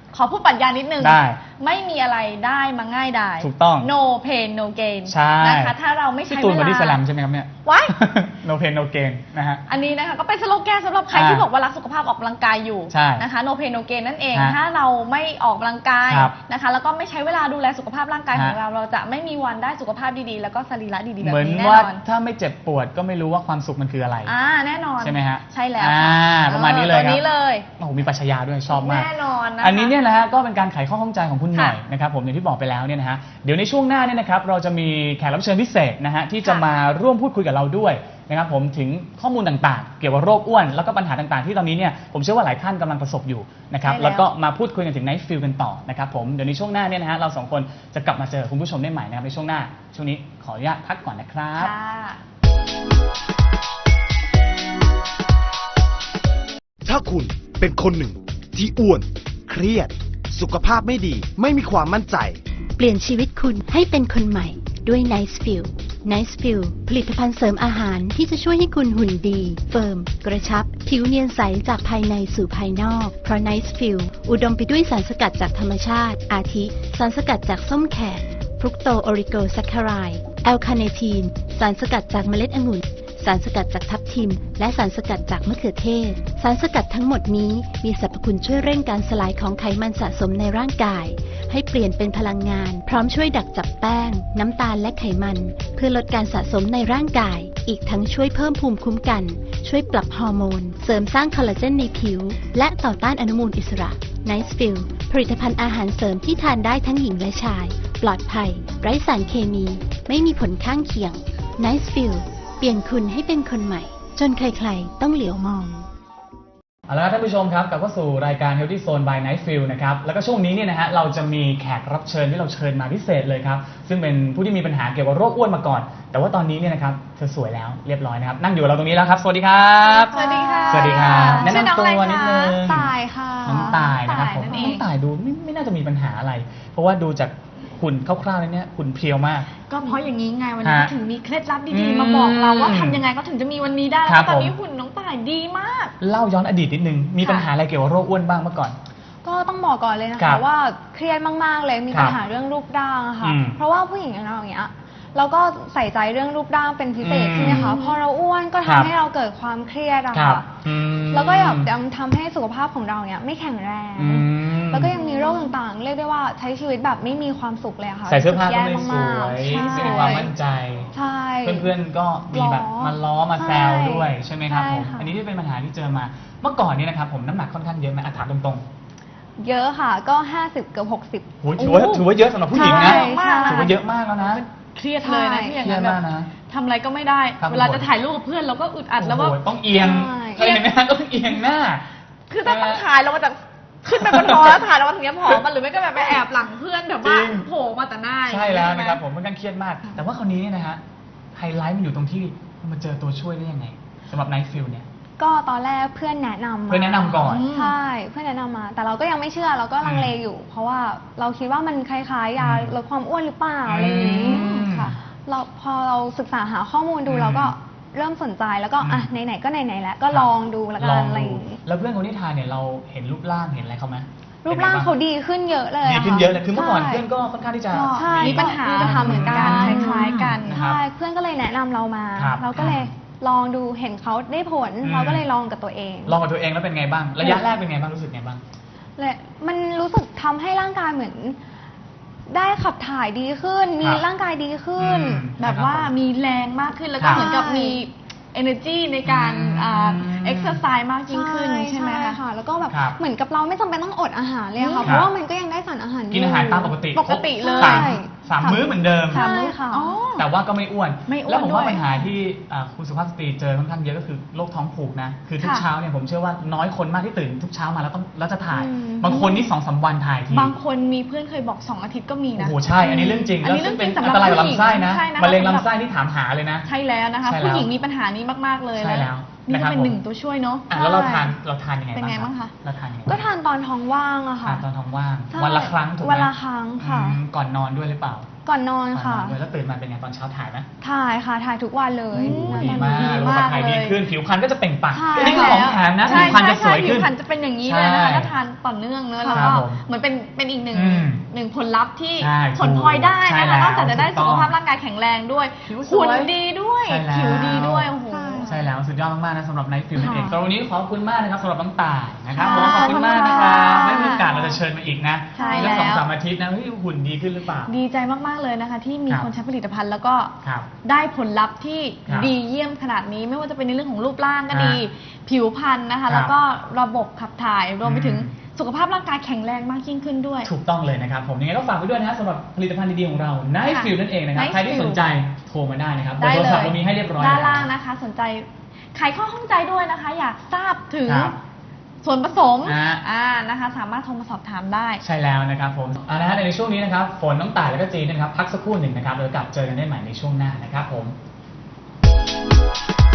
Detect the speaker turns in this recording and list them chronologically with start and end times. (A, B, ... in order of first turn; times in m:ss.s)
0:00.1-0:07.0 A
0:01.0-0:01.4 B
0:03.4-0:03.9 B
0:05.1-0:05.8 B
0:06.3-0:09.6 B
0:07.6-0:08.0 A
0:09.7-0:22.0 A
0:11.1-0:11.5 B
0:12.9-0:13.2 B
0:21.2-0:24.3 B
0:24.3-0:27.7 A
0:25.0-0:27.2 B
0:27.8-0:29.1 B
0:28.7-0:29.9 A
0:29.6-0:51.7 B
0:43.8-0:44.3 A
0:51.6-0:52.2 A
0:56.8-1:02.4 C
1:02.8-1:55.9 D
1:56.9-2:12.9 B
2:09.9-2:11.7 E
2:10.0-2:14.8 A
2:12.8-2:13.6 E
2:13.4-2:19.5 B
2:19.7-2:25.9 A
2:20.6-2:20.9 B
2:21.7-2:23.0 B
2:24.1-2:24.5 B
2:26.0-2:28.8 B
2:27.2-2:27.5 A
2:29.2-2:40.5 E
2:30.2-2:30.4 B
2:31.9-2:32.2 B
2:33.2-2:33.6 B
2:37.0-2:37.8 B
2:37.4-2:38.0 A
2:38.6-2:38.9 B
2:40.1-2:41.7 B
2:41.1-2:50.3 E
2:44.0-2:45.0 B
2:45.0-2:45.5 A
2:48.1-2:50.9 B
2:49.5-2:50.3 A
2:51.0-2:51.7 E
2:51.4-2:58.6 B
2:52.3-2:55.1 E
2:59.4-3:01.3 E
3:01.4-3:04.4 B
3:01.6-3:03.8 A
3:02.5-3:03.7 E
3:04.3-3:09.4 A
3:05.0-3:05.6 E
3:05.6-3:06.3 B
3:07.4-3:07.9 B
3:09.0-3:11.8 B
3:09.8-3:10.6 E
3:10.4-3:10.6 A
3:12.3-3:19.0 A
3:12.4-3:12.9 B
3:14.0-3:14.6 B
3:17.0-3:17.5 B
3:18.3-3:20.8 B
3:21.4-3:24.9 B
3:25.2-3:34.7 E
3:26.7-3:27.5 B
3:27.3-3:27.8 A
3:29.8-3:30.2 B
3:32.4-3:32.7 B
3:33.7-3:35.0 B
3:34.2-3:34.9 A
3:35.2-3:41.6 E
3:37.1-3:37.5 B
3:38.8-3:39.1 B
3:40.1-3:44.9 B
3:44.4-3:47.0 E
3:45.8-3:50.8 B
3:47.7-3:50.6 A
3:47.9-3:56.2 E
3:52.2-3:52.9 B
3:54.8-3:55.2 B
3:56.1-3:58.4 B
3:59.0-4:01.4 E
4:02.3-4:05.2 E
4:04.8-4:05.9 B
4:05.4-4:12.2 A
4:07.0-4:07.3 B
4:07.1-4:07.8 E
4:09.0-4:10.6 B
4:11.1-4:16.8 E
4:12.7-4:13.0 B
4:14.6-4:14.9 A
4:14.8-4:15.1 B
4:16.1-4:19.3 B
4:16.9-4:18.0 A
4:17.4-4:19.9 E
4:19.1-4:20.3 A
4:20.2-4:30.5 B
4:21.1-4:21.8 A
4:25.4-4:25.7 A
4:28.5-4:29.4 E
4:30.3-4:35.7 A
4:32.4-4:36.7 B
4:32.8-4:33.3 E
4:36.6-4:41.3 A
4:37.2-4:37.7 B
4:38.8-4:40.0 B
4:40.7-4:43.2 B
4:42.0-4:42.5 A
4:43.1-4:44.6 E
4:44.4-4:48.3 B
4:45.3-4:47.2 E
4:48.5-4:49.4 E
4:48.9-4:50.7 B
4:50.8-4:53.2 E
4:52.1-4:57.1 B
4:52.2-4:54.0 A
4:54.9-4:56.3 E
4:55.1-5:08.6 A
4:57.6-4:58.3 B
4:59.2-4:59.6 E
4:59.3-4:59.8 B
5:00.7-5:01.2 B
5:02.2-5:04.5 B
5:05.7-5:06.3 B
5:06.8-5:07.9 B
5:08.1-5:08.6 E
5:08.4-5:17.7 B
5:10.0-5:10.4 E
5:12.3-5:14.4 A
5:12.4-5:14.6 E
5:15.4-5:15.9 E
5:15.4-5:16.1 A
5:17.7-5:30.5 A
5:20.4-5:20.7 B
5:22.1-5:22.3 B
5:24.5-5:24.8 B
5:27.8-5:28.3 B
5:30.5-5:37.7 B
5:33.6-5:35.0 A
5:36.2-5:41.3 A
5:41.1-5:41.4 B
5:42.0-5:45.0 A
5:42.6-5:43.0 B
5:45.0-5:51.1 B